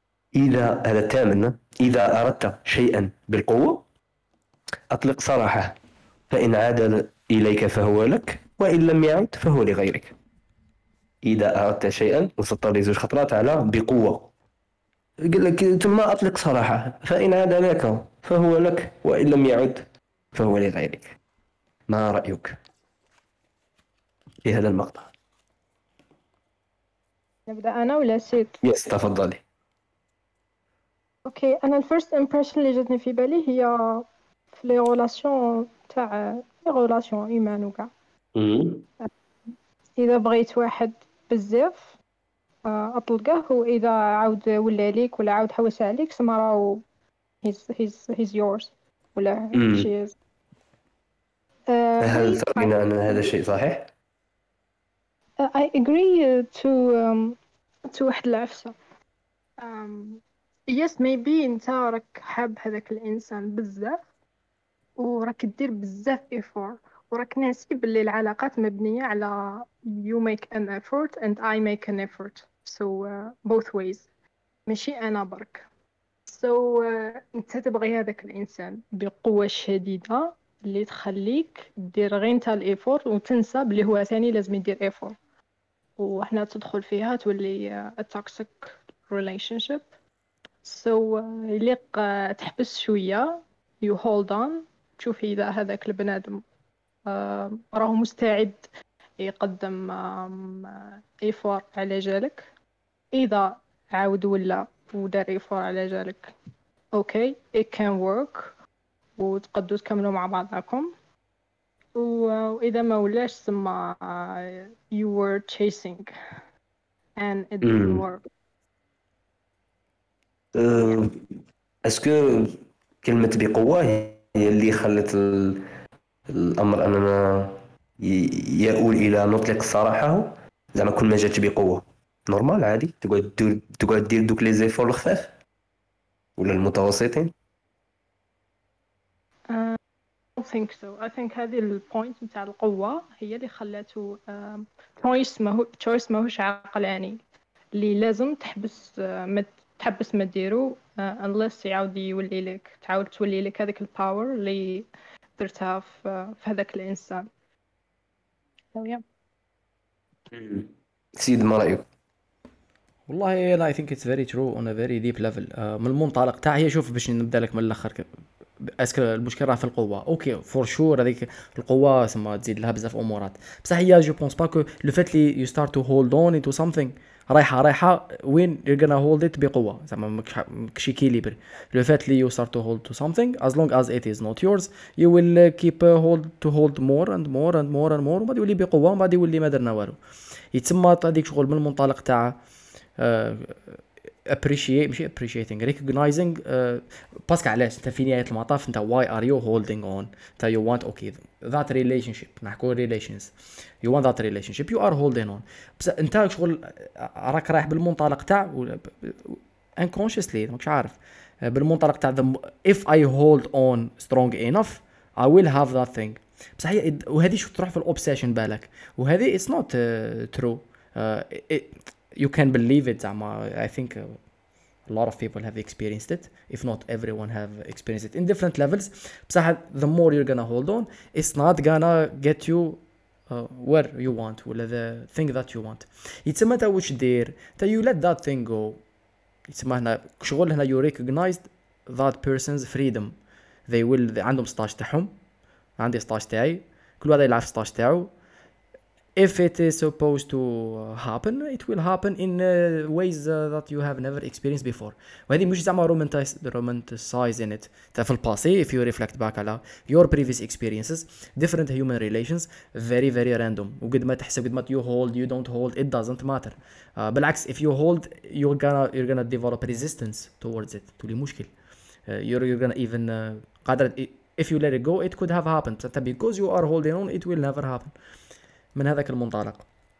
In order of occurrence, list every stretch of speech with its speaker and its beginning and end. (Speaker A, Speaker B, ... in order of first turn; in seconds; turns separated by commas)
Speaker A: 0.3-3.9, Speaker A: 4.9-5.8, Speaker A: 6.3-10.2, Speaker A: 11.2-14.3, Speaker A: 15.2-21.2, Speaker A: 21.9-22.5, Speaker A: 24.4-25.1, Speaker B: 27.5-28.6, Speaker A: 28.6-29.4, Speaker B: 31.3-37.9, Speaker A: 38.4-38.9, Speaker B: 40.0-42.0, Speaker B: 42.6-46.8, Speaker B: 47.4-50.1, Speaker A: 49.5-49.9, Speaker B: 51.7-53.4, Speaker A: 52.0-53.9, Speaker B: 55.4-57.4, Speaker B: 57.9-58.8, Speaker B: 59.6-64.0, Speaker B: 65.0-74.1, Speaker B: 74.7-75.7, Speaker B: 76.3-85.2, Speaker B: 86.0-89.8, Speaker B: 90.6-96.4, Speaker B: 97.1-98.7, Speaker B: 99.2-102.5, Speaker B: 103.1-106.3, Speaker B: 106.9-108.5, Speaker B: 109.2-110.9, Speaker B: 112.0-116.1, Speaker B: 117.2-118.2, Speaker A: 117.6-118.0, Speaker A: 120.5-121.2, Speaker B: 120.7-121.0, Speaker A: 121.8-125.6, Speaker A: 126.4-135.3, Speaker A: 136.4-137.3, Speaker B: 139.5-139.8, Speaker B: 140.4-147.2, Speaker B: 147.7-157.3, Speaker B: 158.8-159.0, Speaker A: 160.3-161.9, Speaker C: 163.1-168.1, Speaker C: 168.6-190.0, Speaker C: 190.5-192.4, Speaker C: 193.0-224.2, Speaker C: 224.9-238.8, Speaker C: 239.5-243.2, Speaker C: 243.7-245.1, Speaker C: 245.8-248.1, Speaker C: 249.2-271.5, Speaker C: 272.1-277.9, Speaker C: 278.8-279.7